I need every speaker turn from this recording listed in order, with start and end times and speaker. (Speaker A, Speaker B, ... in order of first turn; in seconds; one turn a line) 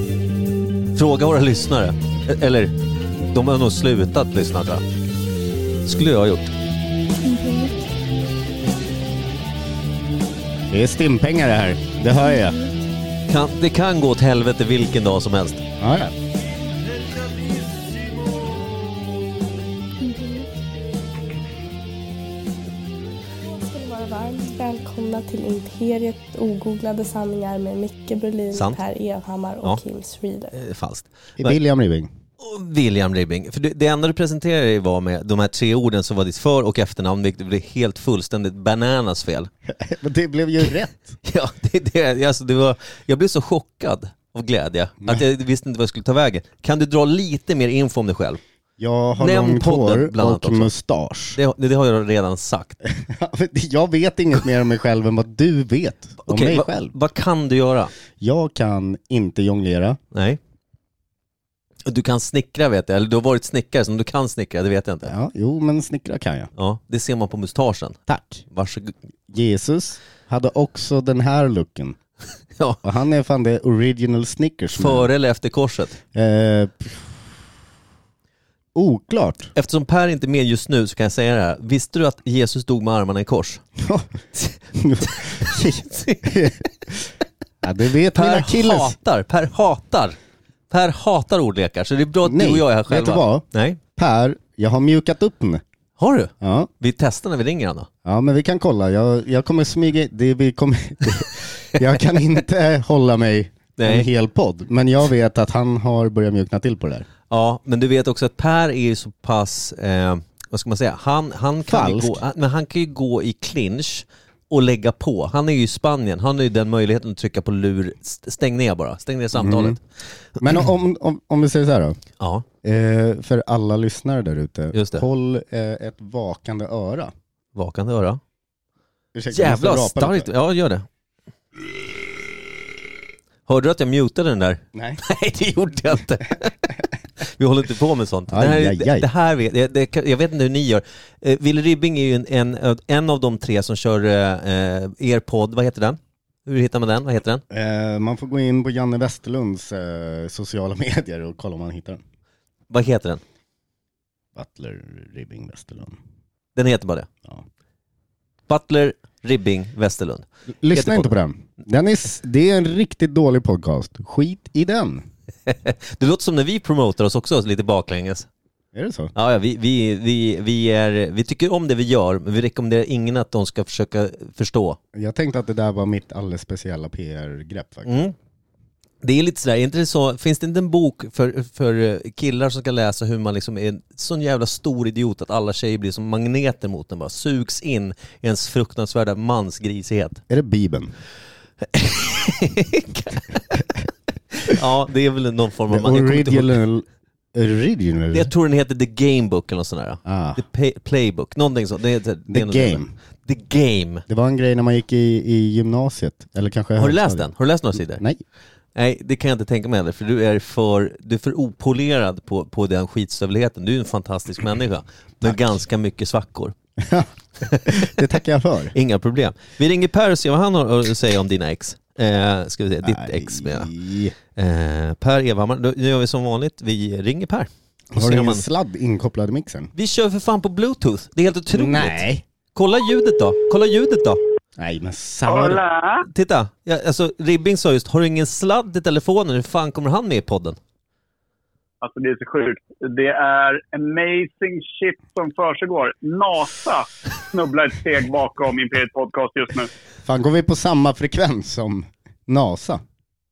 Speaker A: 0.9-4.8
Speaker A: 5.8-6.5
Speaker B: 7.2-7.8
Speaker C: 10.7-12.6
Speaker B: 12.2-12.8
Speaker A: 13.3-15.6
Speaker C: 15.8-16.1
Speaker B: 20.0-20.5
Speaker B: 23.4-30.5
Speaker A: 28.5-28.8
Speaker A: 30.5-31.6
Speaker C: 31.4-32.1
Speaker A: 32.4-39.5
Speaker C: 39.7-41.1
Speaker A: 41.2-48.4
Speaker C: 48.8-51.4
Speaker A: 49.2-50.7
Speaker A: 51.3-52.8
Speaker C: 52.9-56.9
Speaker A: 56.2-57.9
Speaker C: 58.2-60.0
Speaker A: 60.1-60.4
Speaker A: 61.9-65.1
Speaker C: 65.0-66.5
Speaker A: 66.5-68.9
Speaker C: 68.1-68.4
Speaker C: 69.3-72.0
Speaker C: 72.8-75.1
Speaker A: 74.7-76.0
Speaker C: 76.1-77.1
Speaker C: 78.7-79.5
Speaker A: 79.5-83.6
Speaker C: 83.8-87.1
Speaker A: 85.0-86.3
Speaker C: 87.6-89.0
Speaker A: 88.1-90.2
Speaker A: 90.7-93.8
Speaker C: 92.2-93.4
Speaker C: 94.0-95.6
Speaker A: 96.0-97.9
Speaker C: 96.4-96.7
Speaker C: 98.0-107.0
Speaker A: 103.8-104.1
Speaker A: 107.3-119.8
Speaker C: 111.7-112.2
Speaker C: 119.3-119.8
Speaker C: 120.4-122.0
Speaker A: 122.2-122.5
Speaker C: 122.6-127.1
Speaker A: 124.7-125.0
Speaker A: 127.5-128.2
Speaker C: 129.1-130.3
Speaker A: 129.3-130.8
Speaker A: 133.5-147.4
Speaker C: 134.7-135.0
Speaker C: 138.3-139.1
Speaker C: 147.5-152.0
Speaker A: 152.7-153.2
Speaker C: 154.3-156.0
Speaker A: 156.6-157.1
Speaker A: 158.5-161.1
Speaker C: 160.6-165.0
Speaker A: 165.4-168.3
Speaker C: 168.7-169.1
Speaker A: 169.1-174.8
Speaker C: 174.9-177.9
Speaker A: 177.8-178.1
Speaker A: 179.0-190.2
Speaker C: 190.3-190.9
Speaker A: 191.6-193.7
Speaker A: 194.3-196.6
Speaker C: 195.7-198.3
Speaker A: 198.1-204.0
Speaker C: 200.0-200.4
Speaker C: 202.3-202.9
Speaker C: 204.1-207.3
Speaker A: 206.8-208.0
Speaker C: 207.9-208.2
Speaker A: 208.7-216.6
Speaker C: 216.8-217.1
Speaker A: 217.4-218.0
Speaker C: 217.6-218.7
Speaker A: 218.7-223.7
Speaker C: 222.8-224.1
Speaker A: 224.3-228.4
Speaker C: 227.9-229.7
Speaker A: 229.7-234.2
Speaker C: 231.5-232.2
Speaker C: 234.6-235.6
Speaker D: 235.2-236.1
Speaker A: 236.1-240.6
Speaker D: 241.8-249.7
Speaker C: 250.0-252.8